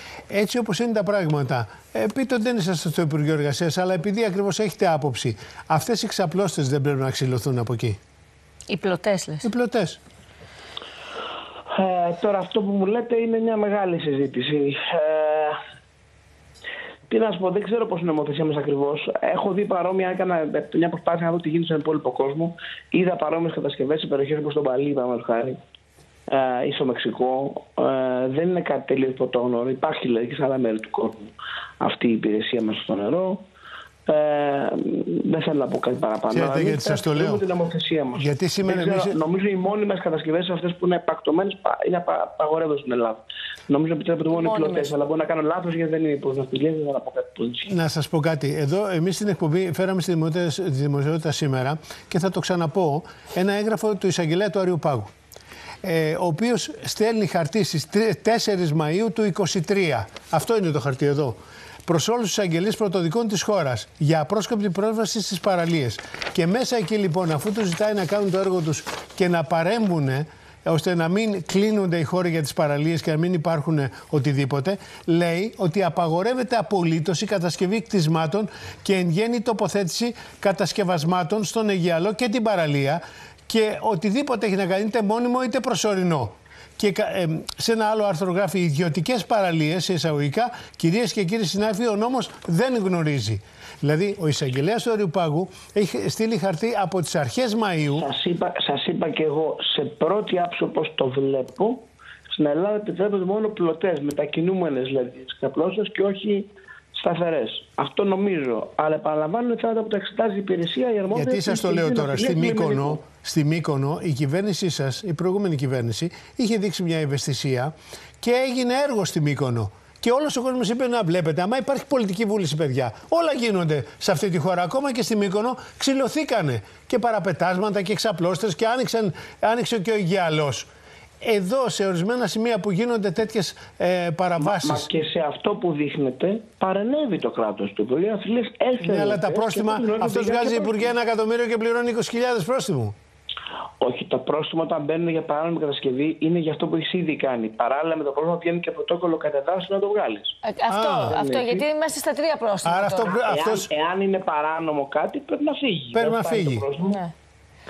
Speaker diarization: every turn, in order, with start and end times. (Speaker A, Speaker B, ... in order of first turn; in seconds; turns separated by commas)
Speaker A: 0.3-8.0, Speaker B: 8.7-9.5, Speaker A: 9.4-10.0, Speaker C: 11.7-15.6, Speaker C: 17.1-25.6, Speaker C: 26.3-33.4, Speaker C: 34.1-47.7, Speaker A: 36.3-37.4, Speaker A: 38.1-39.1, Speaker B: 44.3-44.9, Speaker A: 47.7-55.1, Speaker A: 55.8-98.1, Speaker C: 97.9-113.0, Speaker A: 111.1-130.7, Speaker A: 131.2-134.9, Speaker C: 134.4-140.9, Speaker A: 138.8-142.9, Speaker C: 143.8-150.3, Speaker B: 150.4-153.2, Speaker A: 150.7-151.1, Speaker C: 151.1-151.7, Speaker A: 152.6-153.7, Speaker C: 153.1-157.0, Speaker A: 155.9-156.7